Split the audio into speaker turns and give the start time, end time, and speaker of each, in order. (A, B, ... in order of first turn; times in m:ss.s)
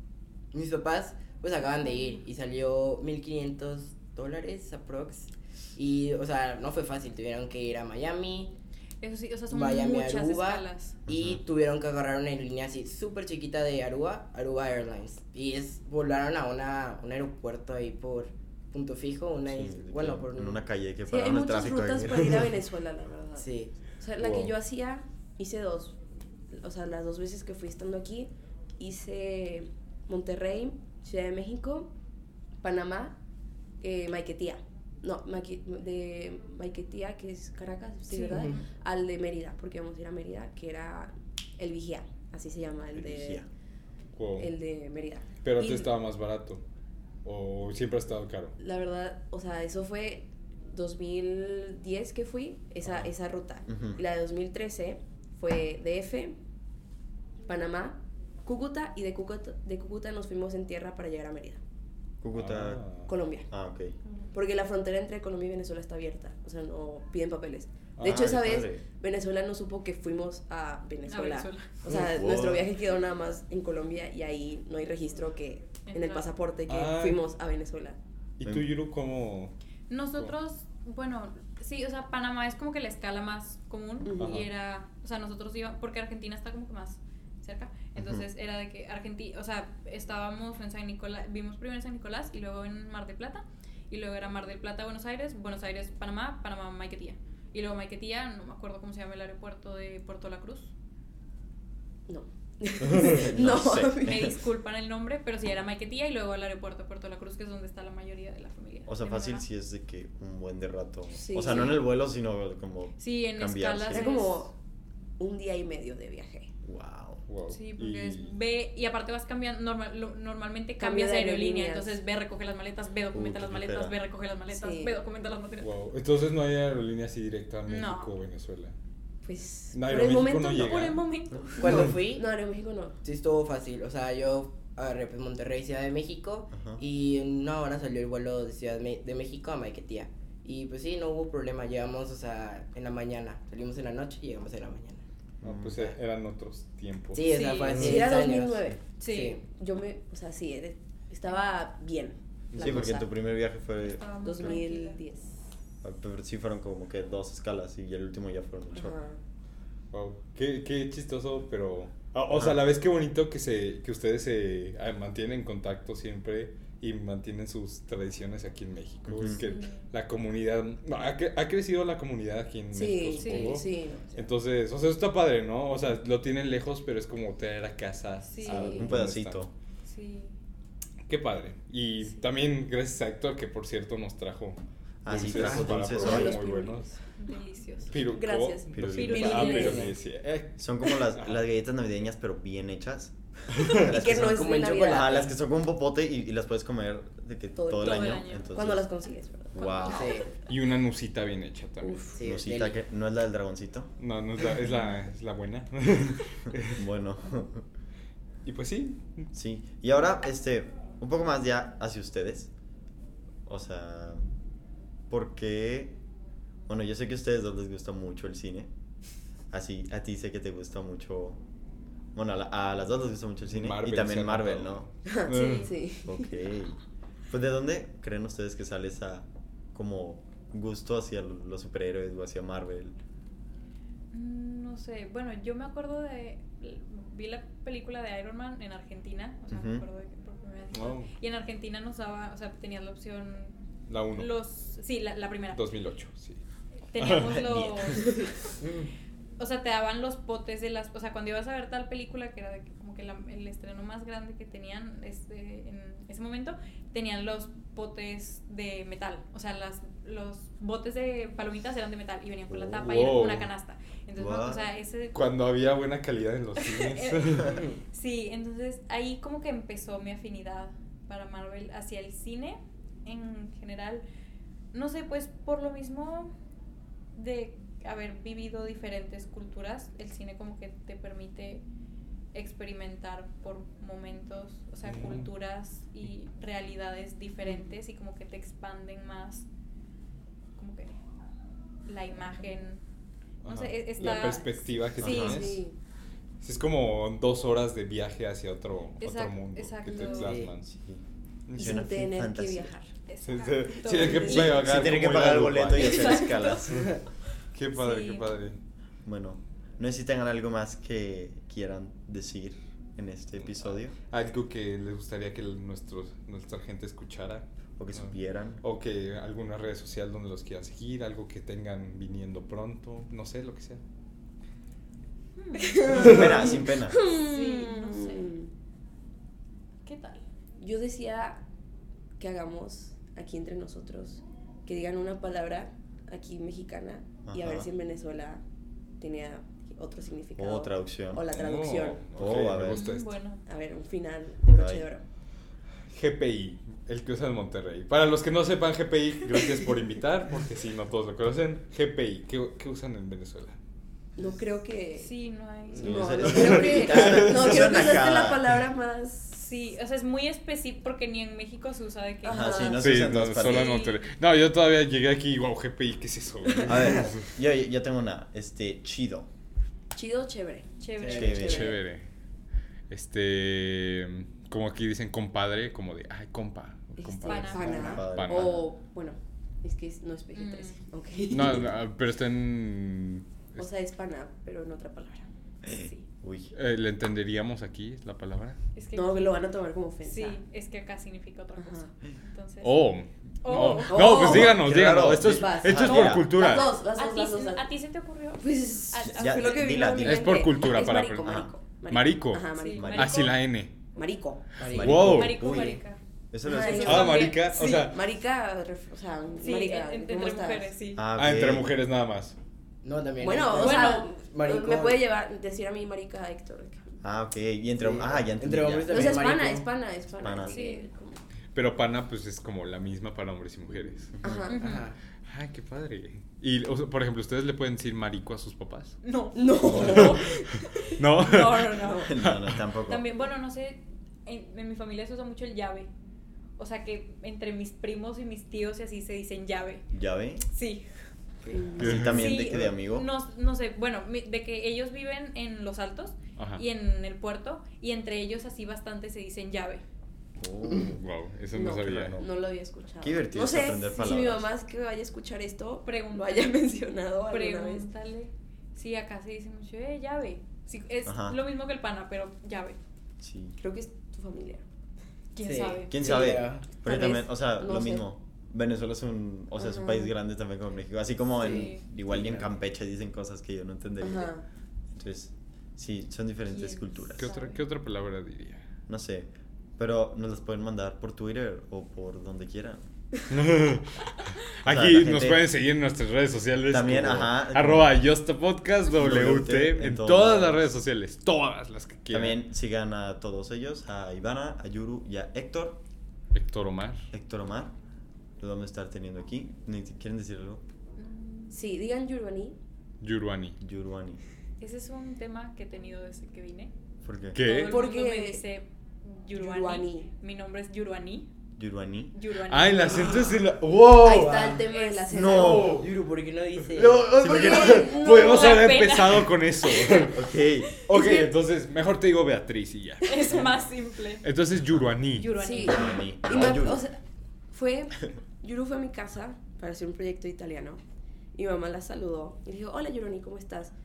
0:00.5-0:08.5 A
0:09.0-0:11.0 B
0:09.5-0:20.6 A
0:11.1-0:11.4 C
0:19.5-0:22.5 C
0:21.1-0:26.0 D
0:23.4-0:23.7 A
0:24.2-0:24.5 E
0:26.5-0:31.9 D
0:32.6-0:33.2 D
0:33.8-0:43.5 D
0:38.1-0:38.6 B
0:38.3-0:38.6 A
0:42.9-0:43.5 C
0:44.2-0:44.5 E
0:44.4-0:45.9 D
0:45.4-0:46.6 E
0:47.2-0:48.6 E
0:48.6-0:56.4 D
0:53.7-0:54.0 C
0:57.5-1:01.6 D
1:02.2-1:02.9 C
1:02.3-1:03.1 E
1:03.1-1:03.5 D
1:03.5-1:04.0 C
1:04.3-1:18.0 D
1:08.0-1:08.3 E
1:08.0-1:08.8 C
1:11.1-1:11.8 B
1:11.9-1:12.7 C
1:15.9-1:16.3 B
1:16.7-1:17.2 E
1:18.4-1:19.5 E
1:19.9-1:40.7 B
1:24.0-1:24.5 D
1:24.2-1:24.5 E
1:28.0-1:28.2 C
1:42.1-1:44.4 D
1:43.0-1:44.2 C
1:44.0-1:49.4 B
1:48.9-1:54.1 C
1:51.2-1:51.8 D
1:53.0-1:54.5 B
1:53.9-1:54.5 D
1:55.2-1:56.5 D
1:56.6-1:57.2 C
1:57.3-1:58.4 E
1:57.5-2:05.7 B
2:00.8-2:02.0 D
2:03.1-2:04.0 C
2:04.5-2:05.0 D
2:05.6-2:08.8 E
2:07.7-2:08.1 B
2:09.2-2:10.9 D
2:09.7-2:11.0 E
2:10.6-2:11.7 B
2:11.6-2:12.3 A
2:11.6-2:13.0 D
2:13.0-2:25.0 A
2:16.5-2:16.8 C
2:25.4-2:25.8 C
2:25.4-2:28.0 E
2:27.1-2:29.4 A
2:27.2-2:27.8 B
2:27.8-2:28.8 D
2:29.0-2:29.4 B
2:29.5-2:33.1 D
2:32.5-2:32.9 E
2:32.6-2:34.6 C
2:33.8-2:35.0 B
2:34.2-2:35.3 D
2:35.8-2:39.0 C
2:38.8-2:39.2 D
2:39.9-2:59.4 E
2:42.3-2:42.6 C
2:49.1-2:49.5 C
2:49.5-2:49.7 B
2:52.7-2:54.1 D
2:53.2-2:53.6 B
2:58.3-2:58.9 B
2:58.5-2:58.8 D
2:58.6-2:59.5 C
2:59.8-3:00.4 B
3:01.1-3:06.9 E
3:05.0-3:06.4 C
3:05.1-3:05.8 A
3:05.9-3:06.9 D
3:06.1-3:07.9 B
3:07.9-3:11.4 E
3:08.1-3:09.9 D
3:08.7-3:09.6 C
3:08.9-3:09.9 B
3:09.6-3:09.9 A
3:10.6-3:18.9 C
3:13.5-3:13.8 E
3:13.7-3:15.1 D
3:14.0-3:15.3 A
3:17.6-3:20.1 D
3:17.8-3:18.6 B
3:19.5-3:20.1 C
3:19.6-3:20.3 B
3:19.9-3:20.3 A
3:20.5-3:22.1 E
3:21.8-3:22.2 D
3:22.1-3:22.8 A
3:22.2-3:23.9 C
3:24.0-3:26.8 E
3:24.6-3:25.0 B
3:26.7-3:27.7 C
3:28.4-3:29.3 E
3:29.3-3:32.5 C
3:33.5-3:34.2 C
3:35.1-3:36.0 C
3:36.7-3:38.7 C
3:39.5-3:41.4 C
3:42.2-3:44.9 C
3:43.4-3:45.7 E
3:45.1-3:46.3 D
3:45.3-3:45.7 B
3:46.0-3:46.8 C
3:47.3-3:53.0 C
3:54.1-4:03.6 B
3:59.5-3:59.8 C
4:00.7-4:01.1 E
4:03.9-4:04.3 E
4:04.2-4:05.6 B
4:05.6-4:06.4 E
4:06.9-4:08.5 B
4:07.0-4:07.4 E
4:07.3-4:08.2 C
4:08.6-4:08.9 A
4:09.4-4:25.3 B
4:22.5-4:22.8 C
4:22.8-4:23.5 E
4:24.2-4:24.7 C
4:25.1-4:27.6 E
4:26.6-4:34.0 B
4:34.7-4:36.3 B
4:37.2-4:41.6 B
4:42.3-4:49.5 B
4:44.9-4:45.3 E
4:50.6-4:51.0 B
4:51.9-4:52.8 B
4:53.4-4:55.6 E
4:53.5-4:55.5 B
4:55.0-4:55.4 C
4:55.0-4:55.8 D
4:56.4-5:00.7 E
4:59.0-5:00.4 B
4:59.9-5:00.2 D
5:00.2-5:00.5 A
5:00.8-5:01.0 C
5:01.5-5:02.0 E
5:01.6-5:02.7 C
5:01.6-5:02.9 D
5:03.1-5:04.7 B
5:03.2-5:06.2 E
5:03.8-5:04.6 D
5:04.3-5:06.9 C
5:05.8-5:06.7 B
5:07.5-5:08.6 E
5:07.8-5:08.3 B
5:09.0-5:14.0 C
5:14.0-5:23.8 E
5:17.8-5:18.6 C
5:25.4-5:26.2 B
5:25.6-5:28.5 D
5:25.9-5:27.0 C
5:27.0-5:28.3 B
5:29.8-5:30.2 B
5:30.6-5:31.4 D
5:32.2-5:38.4 D
5:37.3-5:37.7 C
5:39.0-5:42.0 D
5:40.4-5:41.3 C
5:41.3-5:43.1 E
5:42.2-5:42.8 C
5:42.7-5:43.4 B
5:43.5-5:45.0 D
5:44.5-5:44.9 C
5:45.9-5:53.6 E
5:54.2-5:55.1 D
5:55.0-5:56.5 B
5:55.7-5:59.4 D
5:55.8-5:58.5 C
5:56.3-5:57.8 E
5:59.4-6:02.8 B
6:02.2-6:02.8 D
6:02.2-6:03.8 C
6:02.8-6:07.2 E
6:03.4-6:04.0 B
6:06.5-6:07.0 D
6:06.6-6:09.3 C
6:09.9-6:11.7 D
6:10.8-6:11.8 B
6:11.0-6:11.3 A
6:11.1-6:11.7 C
6:11.3-6:12.1 E
6:12.9-6:18.6 E
6:17.0-6:21.7 D
6:17.2-6:18.0 B
6:17.5-6:18.7 C
6:20.3-6:20.8 B
6:21.3-6:23.6 E
6:23.6-6:25.3 D
6:25.6-6:26.5 C
6:25.7-6:26.0 B
6:26.5-6:28.6 E
6:28.8-6:29.5 B
6:28.9-6:30.4 D
6:30.0-6:32.8 B
6:31.6-6:31.9 D
6:32.6-6:36.7 E
6:33.4-6:34.5 B
6:33.5-6:37.6 D
6:34.0-6:36.3 C
6:35.8-6:40.0 B
6:38.4-6:43.0 D
6:39.1-6:40.4 C
6:40.0-6:43.7 E
6:41.2-6:41.5 C
6:42.5-6:43.4 B
6:42.8-6:43.2 C
6:44.0-6:44.5 D
6:44.6-6:45.8 A
6:44.6-6:45.5 E
6:44.7-6:45.8 C
6:44.9-6:47.6 B
6:46.3-6:47.2 C
6:46.4-6:50.7 D
6:46.8-6:48.0 E
6:49.4-6:51.1 B
6:51.0-6:51.7 C
6:51.2-6:52.4 E
6:52.8-6:55.0 A
6:53.2-6:57.0 D
6:53.6-6:54.1 B
6:57.0-6:59.3 C
6:57.8-6:59.7 A
6:58.9-7:01.2 D
7:00.2-7:00.6 C
7:00.5-7:00.9 B
7:01.5-7:04.1 E
7:04.2-7:04.5 C
7:04.2-7:04.6 D
7:04.5-7:04.9 B
7:04.6-7:05.0 A
7:05.2-7:09.0 E
7:09.0-7:12.2 B
7:09.4-7:10.9 D
7:09.7-7:10.1 C
7:09.8-7:10.2 E
7:11.0-7:12.6 E
7:11.9-7:13.0 C
7:12.9-7:15.9 B
7:16.6-7:19.9 B
7:19.9-7:20.4 C
7:20.5-7:20.9 B
7:21.5-7:21.8 A
7:21.5-7:22.2 D
7:21.8-7:23.1 C
7:21.8-7:22.2 E
7:21.9-7:29.8 B
7:26.4-7:26.6 E
7:30.4-7:31.0 C
7:30.8-7:32.3 E
7:31.5-7:37.9 D
7:33.0-7:34.5 C
7:35.8-7:36.6 B
7:37.3-7:42.8 B
7:41.0-7:41.4 C
7:43.2-7:43.6 C
7:43.6-7:44.6 D
7:45.3-7:46.0 B
7:45.4-7:46.7 A
7:45.9-7:54.3 C
7:46.8-7:48.0 D
7:49.6-7:50.1 D
7:51.4-7:52.5 A
7:51.5-7:51.8 B
7:54.0-7:54.4 D
7:54.9-7:57.3 C
7:56.5-7:57.6 B
7:57.2-7:58.6 E
7:58.9-8:02.8 C
8:03.3-8:12.4 E
8:04.6-8:05.5 C
8:06.7-8:07.9 C
8:08.9-8:10.6 C
8:12.1-8:15.8 C
8:16.3-8:17.0 E
8:17.1-8:17.7 C
8:18.4-8:20.6 C
8:21.0-8:21.6 B
8:21.5-8:22.6 D
8:23.0-8:23.6 E
8:23.6-8:24.2 C
8:24.6-8:26.7 B
8:27.0-8:27.4 C
8:27.3-8:31.3 B
8:27.4-8:27.9 E
8:27.6-8:28.4 D
8:29.3-8:30.1 D
8:31.6-8:32.1 C
8:32.1-8:33.4 B
8:32.5-8:34.6 E
8:33.9-8:35.8 D
8:34.6-8:35.5 B
8:35.1-8:35.8 C
8:35.3-8:35.9 E
8:35.6-8:37.1 A
8:36.7-8:43.5 E
8:37.1-8:37.9 C
8:37.2-8:38.7 D
8:38.0-8:40.2 B
8:40.0-8:40.8 C
8:40.8-8:41.3 B
8:41.0-8:41.3 D
8:43.0-8:44.3 B
8:44.2-8:45.3 E
8:45.2-8:46.0 B
8:45.4-8:47.0 D
8:45.6-8:46.8 C
8:47.5-8:50.8 D
8:51.3-8:53.7 D